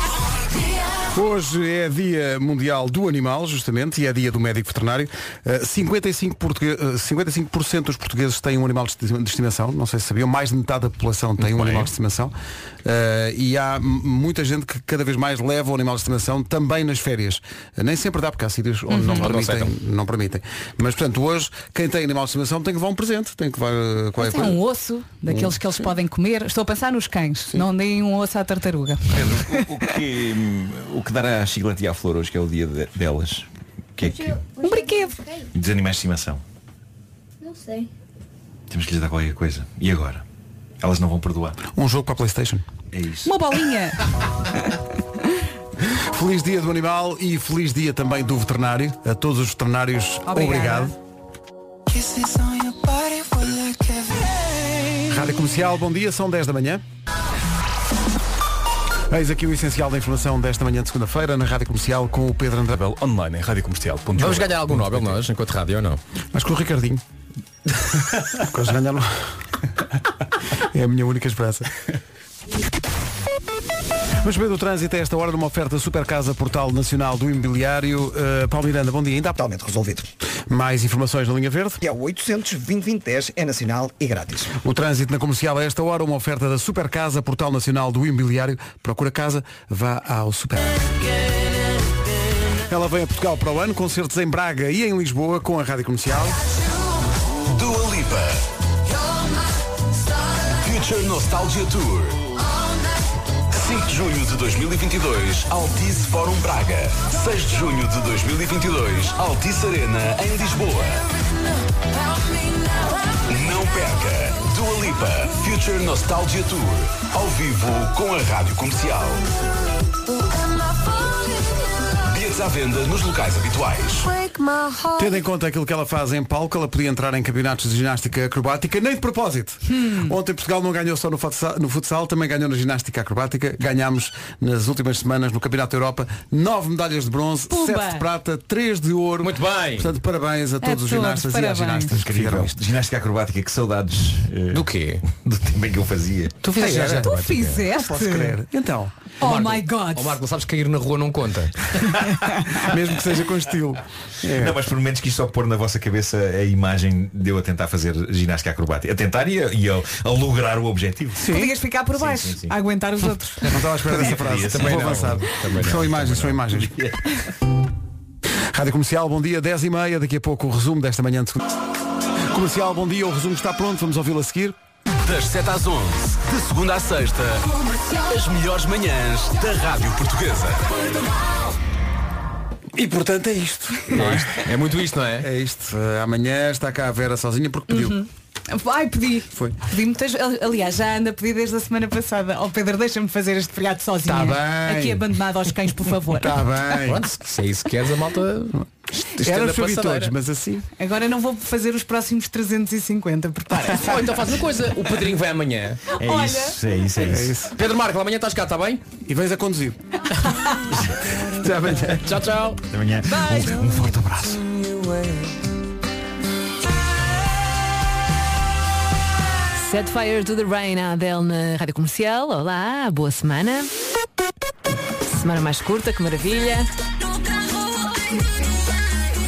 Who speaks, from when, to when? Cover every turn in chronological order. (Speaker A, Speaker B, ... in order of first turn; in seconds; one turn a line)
Speaker A: 1.1-12.3
Speaker B: 11.4-11.9
Speaker A: 12.8-24.6
Speaker C: 18.9-19.3
Speaker B: 19.1-19.7
Speaker C: 24.2-30.0
Speaker A: 25.3-25.6
Speaker D: 29.1-33.5
Speaker D: 34.0-34.4
Speaker E: 34.4-35.2
Speaker C: 34.6-35.1
Speaker D: 35.5-36.4
Speaker E: 37.4-37.9
Speaker D: 38.7-40.2
Speaker D: 40.8-41.6
Speaker A: 41.7-42.6
Speaker D: 42.9-43.4
Speaker C: 43.2-44.0
Speaker A: 46.1-50.9
Speaker C: 50.3-50.9
Speaker A: 55.1-56.8
Speaker A: 59.1-62.8
Speaker F: 62.7-65.2
Speaker B: 64.2-66.0
Speaker A: 66.3-67.0
Speaker A: 68.4-69.2
Speaker A: 70.7-71.7
Speaker A: 74.2-79.4
Speaker G: 79.4-80.1
Speaker A: 80.5-81.8
Speaker G: 81.8-84.5
Speaker A: 84.6-90.9
Speaker A: 92.7-96.4
Speaker H: 97.5-98.4
Speaker H: 100.6-102.3
Speaker H: 103.5-111.1
Speaker H: 113.3-119.2
Speaker E: 120.2-121.6
Speaker H: 122.1-124.1
Speaker E: 124.0-125.2
Speaker A: 125.0-142.6
Speaker C: 129.7-130.1
Speaker C: 137.5-138.1
Speaker B: 139.2-139.9
Speaker C: 140.6-142.0
Speaker D: 141.9-146.5
Speaker B: 144.5-145.0
Speaker B: 146.4-147.7
Speaker A: 146.5-148.9
Speaker C: 146.7-148.4
Speaker C: 149.2-150.2
Speaker B: 149.2-151.9
Speaker A: 152.5-154.6
Speaker D: 154.3-161.4
Speaker A: 161.2-161.5
Speaker C: 161.3-163.5
Speaker D: 161.9-162.6
Speaker A: 163.5-166.8
Speaker D: 163.9-167.0
Speaker B: 164.2-166.2
Speaker A: 168.5-171.4
Speaker A: 172.3-174.6
Speaker H: 175.0-180.7
Speaker A: 182.8-184.4
Speaker B: 183.9-185.3
Speaker A: 185.2-188.0
Speaker C: 187.7-196.4
Speaker A: 194.0-195.1
Speaker A: 196.1-197.1
Speaker B: 196.8-200.1
Speaker A: 199.2-200.7
Speaker C: 200.8-204.3
Speaker B: 203.7-205.9
Speaker C: 206.0-206.6
Speaker D: 206.0-207.4
Speaker A: 207.0-207.5
Speaker B: 207.6-208.8
Speaker A: 209.1-209.8
Speaker C: 210.3-210.6
Speaker A: 211.4-212.0
Speaker B: 211.8-212.6
Speaker D: 212.7-214.4
Speaker C: 213.0-213.6
Speaker I: 219.6-223.7
Speaker I: 225.1-226.7